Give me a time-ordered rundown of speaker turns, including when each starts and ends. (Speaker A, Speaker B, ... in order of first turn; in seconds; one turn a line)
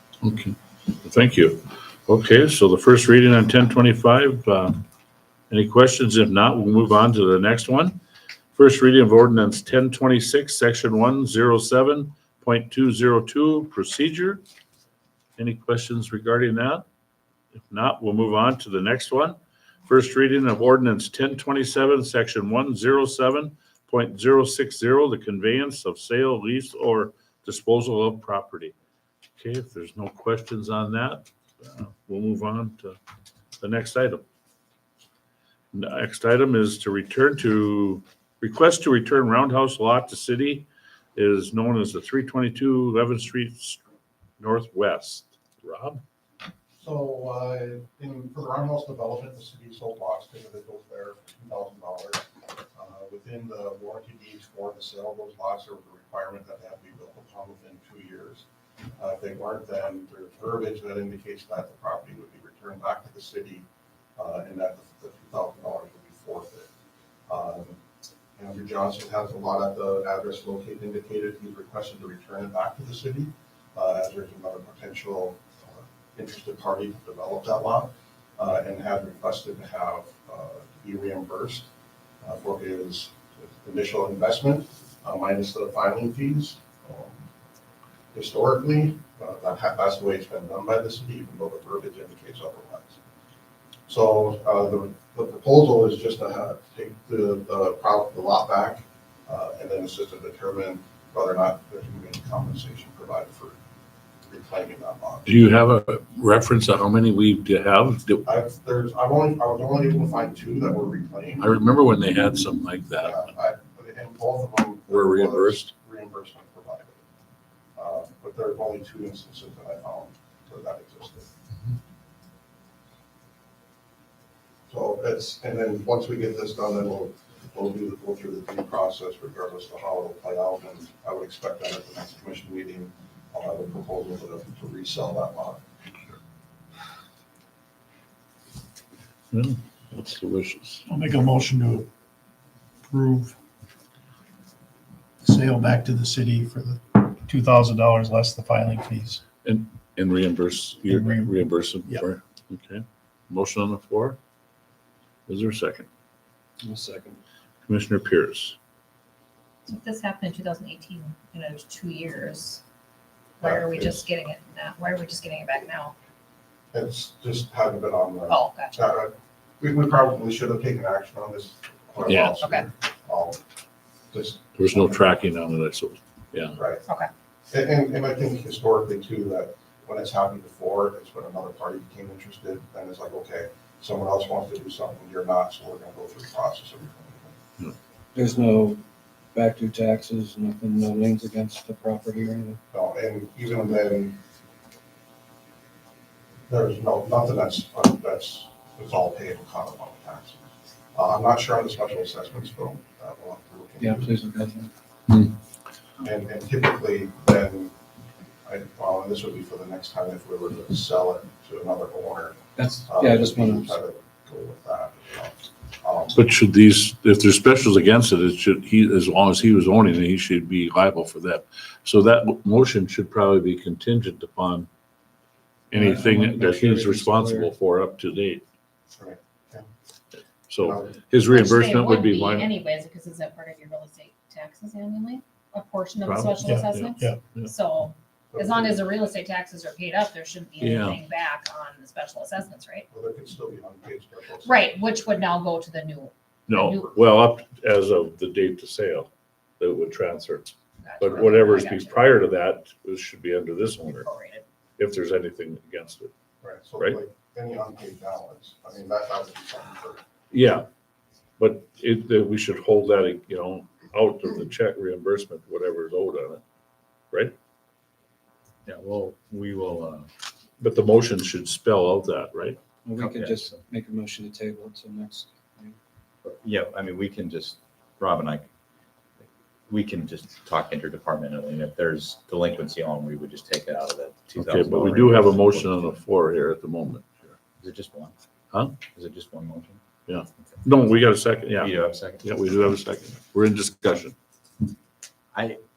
Speaker A: 0.2-4.8
Speaker A: 5.5-8.0
Speaker A: 8.6-14.4
Speaker A: 15.4-16.8
Speaker A: 17.7-28.7
Speaker A: 29.4-33.0
Speaker A: 33.6-34.2
Speaker A: 35.7-43.8
Speaker A: 44.4-46.0
Speaker B: 46.8-63.6
Speaker B: 64.2-66.7
Speaker B: 67.3-67.8
Speaker B: 68.4-81.7
Speaker B: 82.2-87.2
Speaker B: 88.1-93.0
Speaker B: 93.9-103.6
Speaker B: 104.3-105.3
Speaker A: 105.2-108.2
Speaker B: 108.2-111.5
Speaker A: 111.4-113.2
Speaker B: 113.0-117.0
Speaker A: 114.9-115.7
Speaker B: 117.8-121.3
Speaker B: 124.7-135.6
Speaker A: 139.3-140.8
Speaker C: 140.9-141.9
Speaker C: 142.9-143.3
Speaker C: 145.2-149.2
Speaker A: 149.4-154.2
Speaker C: 150.9-152.0
Speaker A: 155.3-155.9
Speaker D: 156.6-157.2
Speaker A: 157.7-158.6
Speaker E: 159.7-162.6
Speaker E: 163.4-165.9
Speaker B: 163.4-164.1
Speaker B: 166.7-173.4
Speaker E: 168.3-168.7
Speaker A: 172.1-172.3
Speaker E: 172.4-172.7
Speaker B: 174.1-175.1
Speaker A: 174.6-176.6
Speaker B: 176.5-176.8
Speaker B: 177.5-187.3
Speaker D: 188.1-188.8
Speaker D: 189.3-192.6
Speaker B: 192.7-194.2
Speaker B: 196.5-200.4
Speaker B: 200.9-204.2
Speaker D: 203.8-204.7
Speaker B: 206.0-207.7
Speaker B: 208.4-216.2
Speaker D: 212.6-213.8
Speaker A: 216.1-224.7
Speaker A: 225.7-228.4
Speaker D: 225.7-227.5
Speaker B: 228.9-229.6
Speaker A: 230.5-232.5
Speaker B: 230.6-231.0
Speaker E: 231.3-242.9
Speaker A: 236.0-237.5
Speaker C: 236.4-237.2
Speaker B: 238.3-238.8
Speaker A: 240.6-241.0
Speaker B: 242.9-245.3
Speaker E: 244.4-246.9
Speaker A: 246.5-254.1
Speaker B: 246.7-246.9
Speaker E: 250.8-252.1
Speaker E: 253.8-254.4
Speaker A: 254.8-256.1
Speaker B: 256.4-260.0
Speaker A: 260.3-260.6
Speaker A: 261.4-266.4
Speaker F: 268.6-270.1
Speaker A: 270.6-272.6
Speaker D: 272.8-275.8
Speaker F: 273.0-273.6
Speaker F: 276.2-278.5
Speaker F: 279.7-286.0
Speaker A: 284.4-287.3
Speaker F: 287.6-288.1
Speaker A: 288.5-288.8
Speaker F: 288.9-289.8
Speaker A: 290.1-294.1
Speaker F: 291.6-292.4
Speaker F: 295.3-295.6